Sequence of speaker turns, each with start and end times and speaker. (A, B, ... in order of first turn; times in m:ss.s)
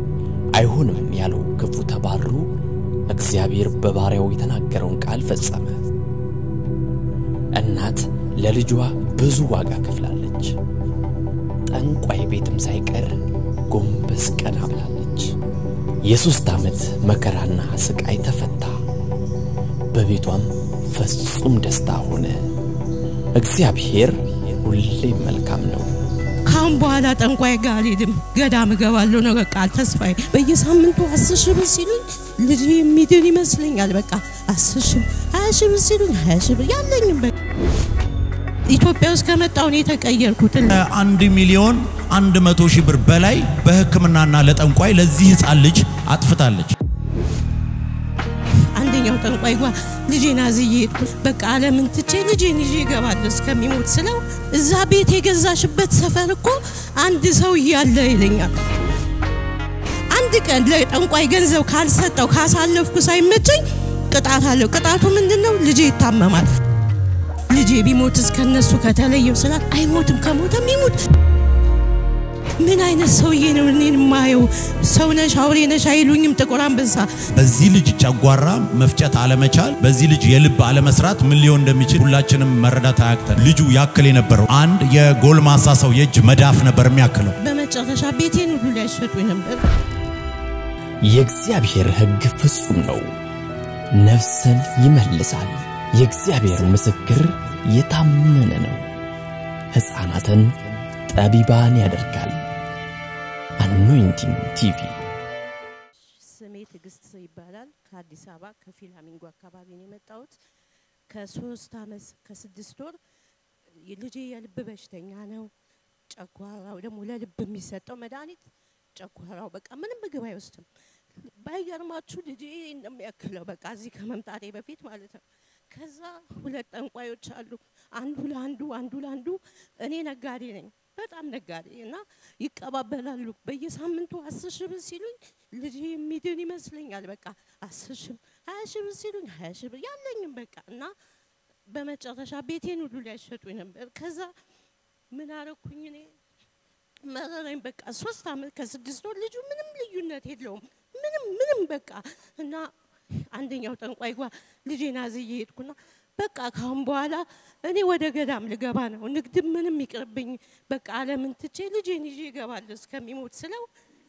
0:00.5-0:02.5 A
0:03.1-0:05.9 A
0:07.5-0:10.6 A
0:11.7-0:15.3 A
0:16.0-0:18.8 A
0:19.9-0:22.5 A
0:23.4-0:26.0 A
0:26.4-0:37.3 B
0:38.7-0:40.8 B
0:40.7-0:46.8 C
0:48.7-0:58.6 B
1:00.1-1:06.5 B
1:07.5-1:11.0 B
1:12.6-1:17.1 B
1:17.3-1:27.4 C
1:27.4-1:29.6 B
1:31.0-1:33.2 A
1:34.0-1:38.9 A
1:39.7-1:42.4 A
1:43.6-1:45.0 A
1:46.1-1:50.4 B
1:51.1-1:53.0 B
1:53.7-1:55.5 B
1:56.1-2:20.9 B
2:21.7-2:24.3 B
2:25.1-2:26.2 B
2:27.0-2:43.7 B